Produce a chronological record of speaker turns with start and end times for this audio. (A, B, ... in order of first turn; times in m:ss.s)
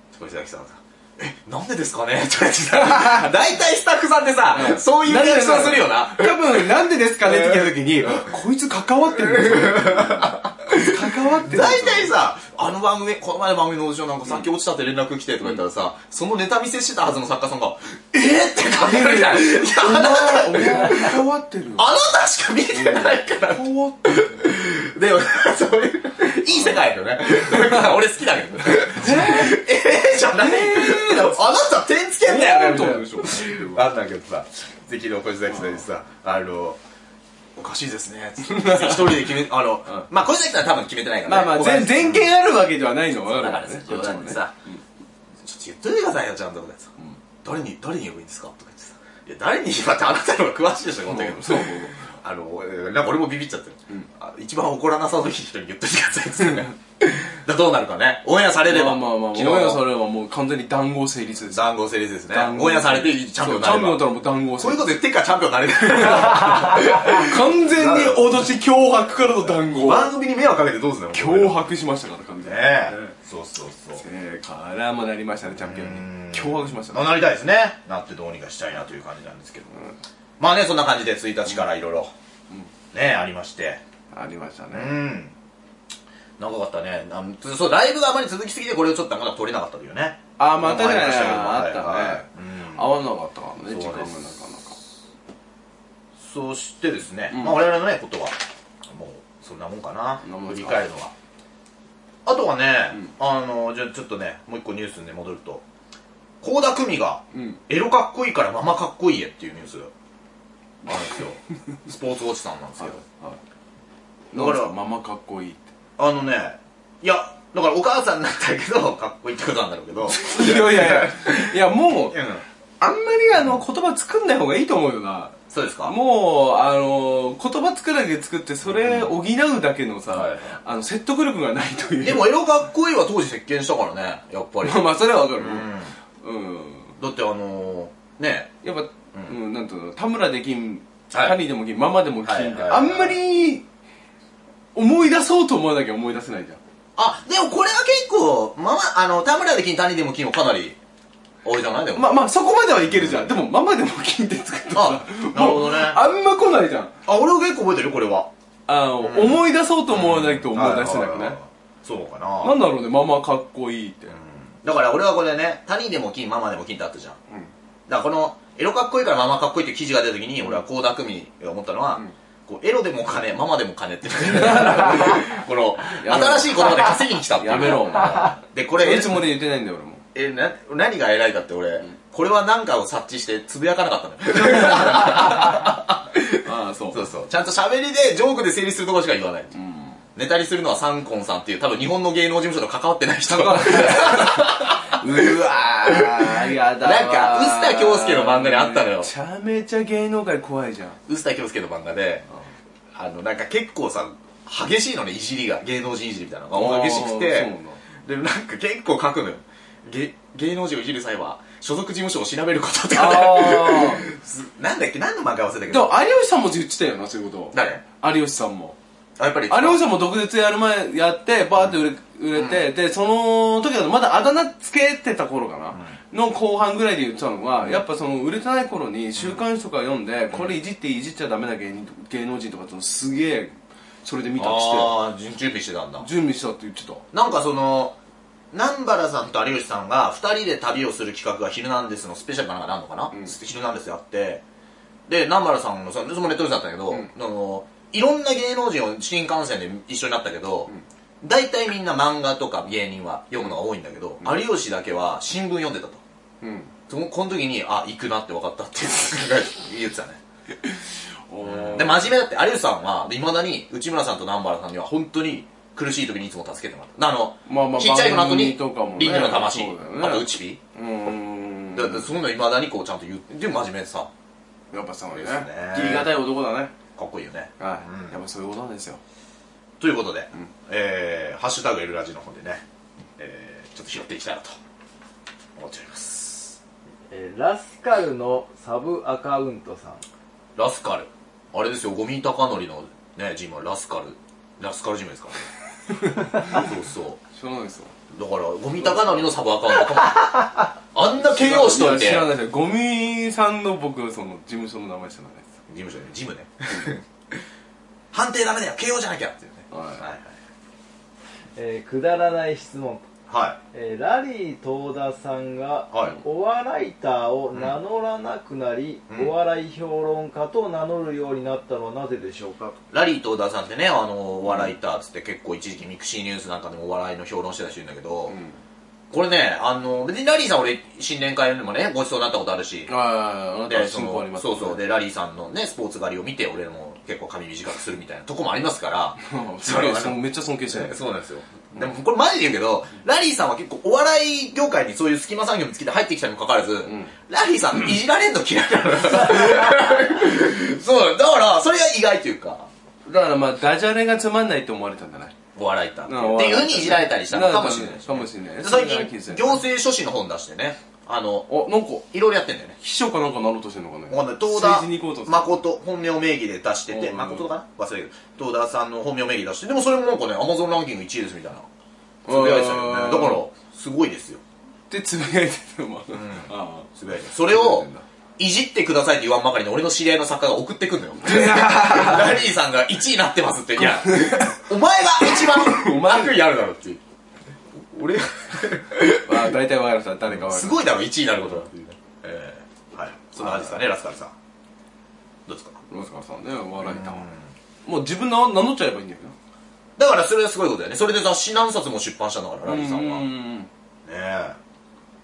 0:00.1-0:06.7 A
0:02.8-0:03.3 B
0:04.5-0:12.1 B
0:07.2-0:08.3 A
0:09.2-0:21.2 A
0:18.6-0:21.9 B
0:21.8-0:36.8 A
0:22.7-0:24.4 B
0:26.5-0:26.8 B
0:27.3-0:27.9 B
0:28.7-0:29.6 B
0:30.3-0:31.5 B
0:32.2-0:33.8 B
0:35.5-0:35.8 B
0:37.6-0:42.3 A
0:38.4-0:40.1 B
0:41.2-0:44.8 B
0:43.2-0:44.5 A
0:45.4-0:59.8 A
0:51.0-0:52.1 B
0:58.7-1:01.7 B
1:01.5-1:04.1 A
1:02.3-1:05.0 B
1:04.6-1:08.4 A
1:05.8-1:10.1 B
1:09.5-1:11.6 A
1:11.1-1:13.1 B
1:12.4-1:14.0 A
1:14.0-1:17.1 B
1:15.6-1:19.7 A
1:20.4-1:22.1 A
1:22.9-1:23.8 A
1:24.1-1:25.0 B
1:24.7-1:25.3 A
1:26.4-1:32.9 A
1:30.4-1:34.8 B
1:33.6-1:34.2 A
1:36.2-1:38.4 A
1:37.3-1:37.6 B
1:38.9-1:41.1 A
1:40.2-1:40.8 B
1:42.2-1:45.6 A
1:46.4-1:49.9 A
1:47.3-1:47.6 B
1:50.8-1:53.0 A
1:52.8-1:53.4 B
1:54.3-1:55.7 B
1:54.3-1:54.7 A
1:56.0-2:02.4 A
2:00.1-2:02.2 B
2:02.8-2:12.3 B
2:03.4-2:03.6 A
2:05.5-2:06.0 A
2:08.6-2:09.2 A
2:10.1-2:10.6 A
2:12.0-2:15.9 A
2:14.6-2:15.7 B
2:16.2-2:16.9 B
2:17.0-2:18.5 A
2:18.6-2:23.6 B
2:21.1-2:21.4 A
2:22.2-2:23.2 A
2:24.7-2:26.6 B
2:27.0-2:30.8 A
2:31.4-2:32.1 A
2:31.9-2:36.9 B
2:32.9-2:33.3 A
2:34.7-2:36.0 A
2:37.0-2:38.3 A
2:38.7-2:41.4 B
2:39.0-2:42.6 A
2:42.4-2:44.2 B
2:44.1-2:47.2 A
2:47.9-2:59.2 A
2:54.2-2:55.2 B
2:55.9-3:00.0 B
3:00.1-3:09.5 A
3:04.3-3:05.7 B
3:06.4-3:07.0 B
3:09.5-3:10.0 B
3:10.1-3:19.1 A
3:13.3-3:21.0 B
3:21.1-3:22.2 A
3:22.9-3:27.5 A
3:26.5-3:27.8 B
3:28.0-3:36.0 A
3:32.9-3:34.0 B
3:35.7-3:38.8 B
3:37.5-3:37.8 A
3:39.2-3:39.8 A
3:39.5-3:53.5 B
3:42.3-3:42.7 A
3:54.0-3:55.0 B
3:54.4-3:56.1 A
3:56.0-3:57.0 B
3:57.1-3:58.0 A
3:58.5-4:04.4 A
4:05.1-4:10.7 A
4:11.2-4:16.0 A
4:16.4-4:16.7 B
4:16.9-4:20.2 A
4:20.6-4:22.1 B
4:21.4-4:30.6 A
4:27.4-4:32.1 B
4:31.7-4:34.1 A
4:34.7-4:36.7 B
4:35.1-4:36.1 A
4:36.9-4:38.2 A
4:37.6-4:39.0 B
4:39.8-4:42.6 A
4:43.2-4:44.6 A
4:45.6-4:46.6 A
4:47.1-4:50.0 C
4:50.6-4:55.5 A
4:55.9-4:56.7 B
4:56.4-4:57.2 A
4:57.3-4:57.9 B
4:58.1-5:02.3 A
5:01.2-5:05.5 B
5:05.7-5:07.4 A
5:08.1-5:10.3 A
5:09.7-5:10.0 B
5:11.6-5:13.0 C
5:13.3-5:13.6 A
5:13.7-5:22.8 C
5:15.9-5:16.2 A
5:22.9-5:28.4 A
5:24.4-5:24.7 B
5:28.3-5:28.6 B
5:29.1-5:32.9 A
5:32.9-5:34.8 B
5:33.7-5:52.7 A
5:39.2-5:41.0 B
5:46.8-5:47.1 B
5:53.0-5:55.4 B
5:55.5-6:01.5 A
5:56.0-5:59.6 B
6:01.5-6:02.0 B
6:02.1-6:02.8 A
6:02.8-6:05.6 B
6:04.1-6:11.7 A
6:06.9-6:07.5 B
6:12.2-6:13.4 B
6:12.3-6:14.4 A
6:14.9-6:16.9 B
6:16.1-6:17.9 A
6:17.4-6:18.0 B
6:18.4-6:27.0 A
6:21.2-6:22.4 B
6:23.8-6:26.4 B
6:27.7-6:29.4 A
6:29.2-6:30.9 B
6:30.2-6:34.3 A
6:33.4-6:33.8 B
6:35.4-6:35.8 A
6:35.9-6:37.2 B
6:36.8-6:37.5 A
6:37.8-6:39.3 B
6:40.0-6:43.2 A
6:42.6-6:43.7 B
6:44.0-6:44.6 A